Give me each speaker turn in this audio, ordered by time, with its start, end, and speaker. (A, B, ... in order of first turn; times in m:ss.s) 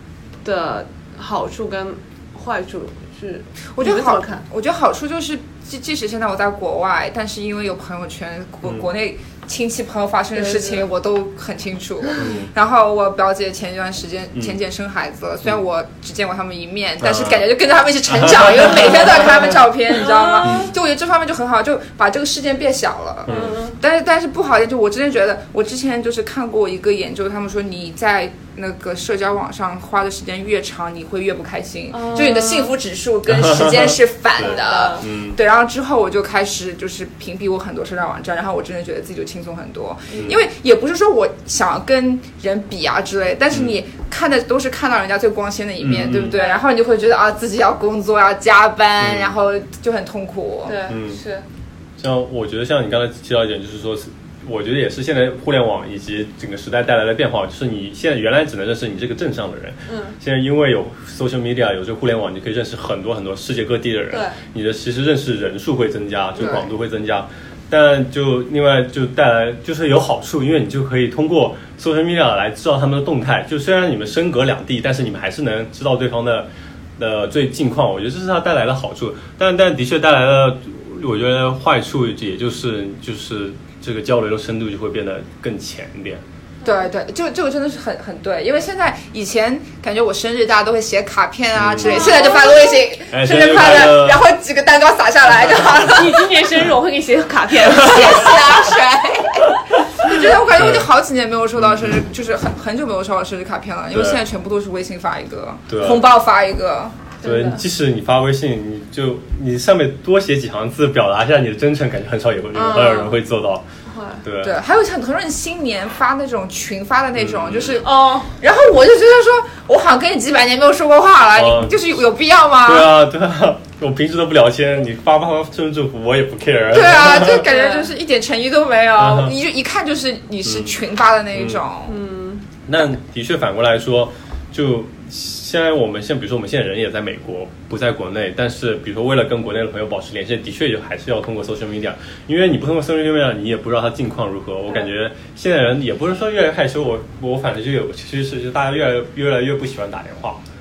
0:00.4-0:04.4 A
0:03.8-0:50.8 B
0:10.4-0:10.9 A
0:12.2-0:12.5 C
0:17.0-0:17.4 C
0:18.1-0:19.5 C
0:20.0-0:20.7 A
0:20.4-0:20.7 C
0:23.3-0:23.6 C
0:23.3-0:23.8 A
0:31.9-0:32.8 A
0:33.3-0:35.4 C
0:34.4-0:35.1 A
0:40.1-0:40.4 C
0:45.8-0:46.4 C
0:46.4-0:46.6 A
0:49.0-0:49.4 C
0:50.7-0:51.5 A
0:50.9-0:51.2 C
0:52.0-1:26.2 C
0:59.9-1:00.2 A
1:04.1-1:04.4 A
1:06.4-1:06.7 B
1:26.6-1:36.3 B
1:31.6-1:32.3 C
1:31.8-1:32.8 A
1:33.1-1:34.3 C
1:35.9-1:38.6 A
1:37.7-1:47.1 B
1:37.7-1:38.3 C
1:39.4-1:40.9 C
1:41.6-1:42.0 C
1:43.9-1:44.2 C
1:45.7-1:46.1 C
1:47.2-1:47.6 A
1:47.2-1:53.6 C
1:52.5-1:53.2 A
1:53.9-1:54.2 A
1:54.2-1:54.6 C
1:54.4-2:03.0 B
1:57.2-1:57.8 C
1:57.8-1:58.4 A
2:01.4-2:02.0 C
2:02.6-2:07.5 C
2:06.7-2:12.0 B
2:07.3-2:07.9 A
2:09.0-2:09.4 C
2:10.4-2:10.8 C
2:11.3-2:11.6 C
2:11.9-2:12.5 A
2:12.7-2:30.4 C